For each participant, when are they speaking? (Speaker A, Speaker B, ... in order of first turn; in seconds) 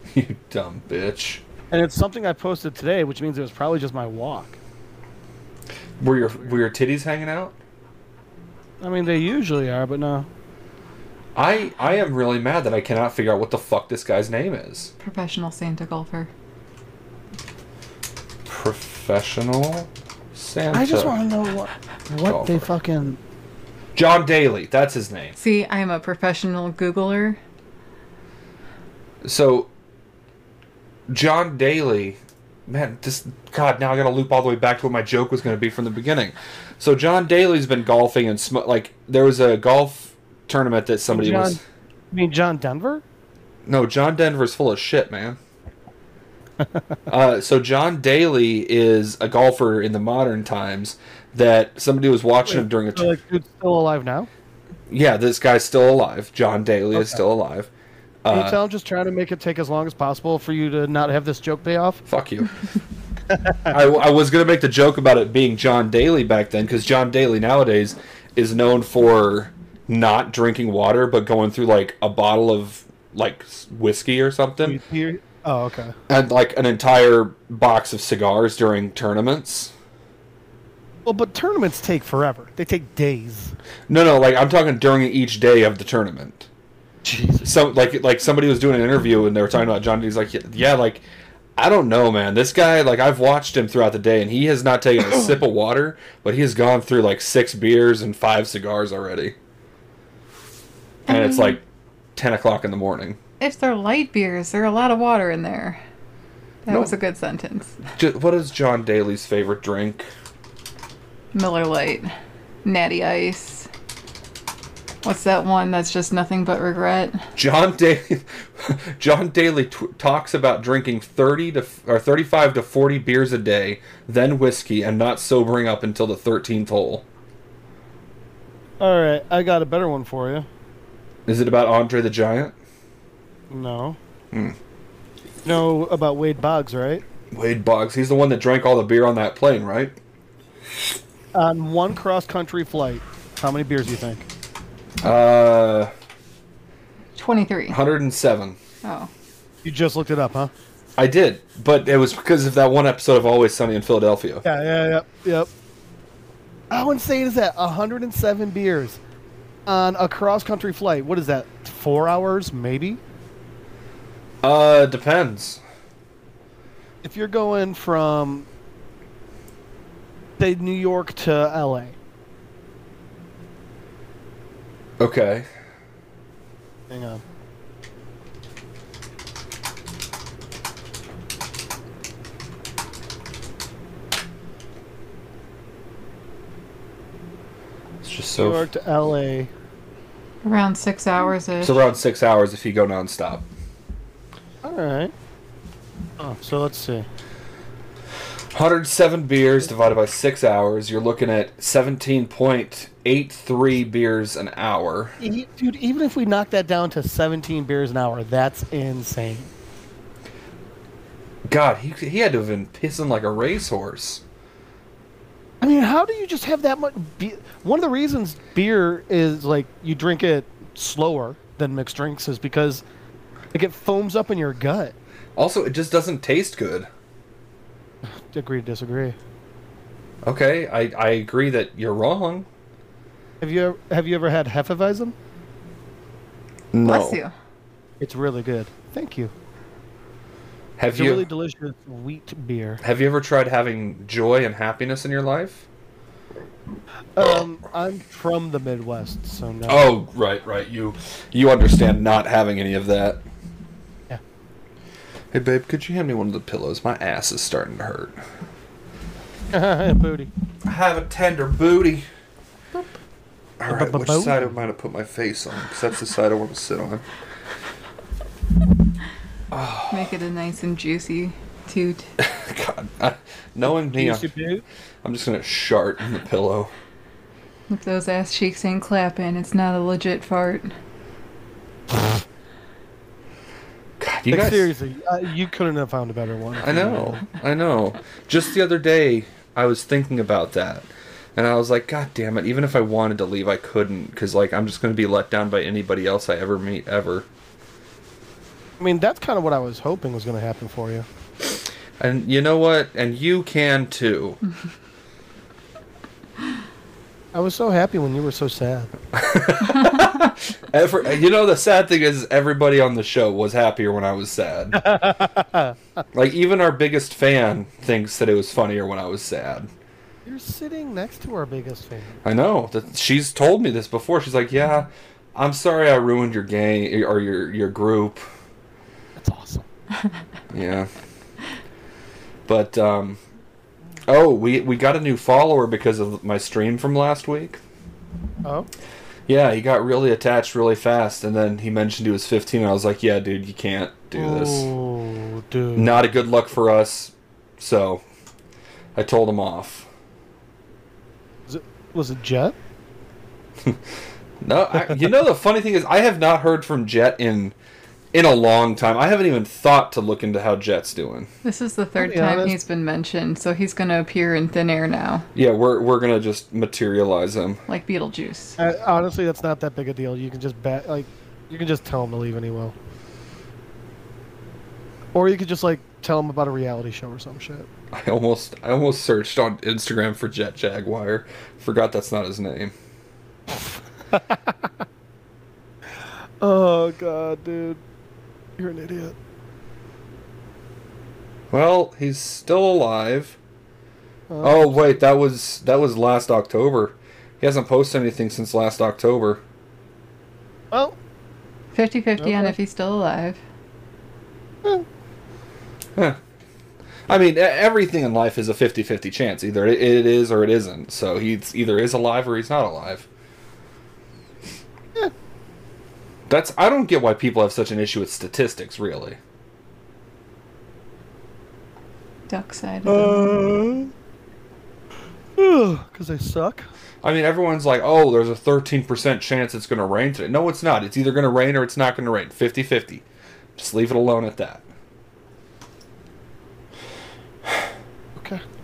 Speaker A: 0.1-1.4, 6.0-7.5, 11.3-14.9, 18.5-21.2, 22.2-22.6, 23.9-25.4, 29.2-29.7, 31.1-41.6, 43.6-45.4, 47.1-53.1, 54.9-57.7, 58.2-58.6, 62.1-62.5, 63.7-74.8, 76.1-79.7, 83.9-86.5, 87.4-91.0, 91.5-99.3, 101.1-101.6, 102.2-103.2, 108.0-110.1, 117.3-127.0, 131.2-132.5, 137.3-139.9, 145.0-145.9, 147.7-148.6, 151.0-154.4, 164.4-165.6, 175.0-175.5, 188.0-188.6, 191.6-193.4, 198.5-205.2, 211.5-214.2, 225.3-226.9, 230.2-232.5, 236.7-237.2, 240.8-241.2, 242.8-245.7, 249.7-253.2, 255.3-258.2, 260.6-262.1, 263.6-267.0, 269.5-270.1, 272.2-274.3, 275.0-276.7, 284.0-284.7, 286.6-297.3, 302.0-304.4, 309.1-314.9, 316.1-319.7, 322.2-328.2, 330.5-330.9, 332.5-333.2, 334.1-337.6, 339.3-344.7, 345.8-348.0, 348.9-349.9, 353.6-357.5, 358.1-361.3, 365.3-367.6, 377.9-382.7, 391.5-393.4, 394.4-399.4, 407.1-413.1, 416.3-419.2, 427.0-433.0, 433.6-434.6
Speaker B: 1.7-4.6, 8.8-10.3, 20.7-23.2, 41.1-41.6, 42.1-43.0, 52.4-54.3, 56.9-57.2, 58.3-62.0, 63.3-63.7, 74.6-76.0, 81.0-83.5, 87.0-87.5, 128.8-130.5, 133.5-134.0, 135.4-137.0, 141.3-144.3, 149.6-150.5, 154.4-155.5, 156.7-159.0, 159.7-163.0, 167.0-168.5, 170.4-171.9, 176.9-177.2, 188.4-189.5, 194.6-195.1, 196.2-197.1, 205.2-209.5, 215.6-222.8, 223.5-224.9, 228.2-229.2, 233.4-235.1, 238.0-239.3, 240.9-242.8, 247.1-249.9, 259.5-260.3, 263.7-264.4, 273.9-274.6, 284.3-287.2, 298.8-301.1, 307.3-308.9, 314.7-315.8, 320.2-322.2, 329.2-329.7, 344.1-346.1, 351.5-352.6, 362.0-362.6, 368.6-372.7, 375.1-377.7, 384.1-384.7, 386.4-387.8, 388.6-389.1, 394.3-394.9, 400.7-401.0, 402.2-402.5, 422.9-423.9, 425.4-426.7, 438.1-438.4
Speaker C: 15.0-16.3, 25.4-27.4, 101.1-101.6, 103.4-105.8, 106.7-107.8, 111.3-112.1, 112.6-113.7, 115.0-117.2, 147.2-147.8, 148.8-149.1, 190.4-191.7, 236.8-237.3, 269.9-272.1, 277.7-280.7, 361.4-365.3, 367.7-368.6, 401.7-403.4, 422.3-423.5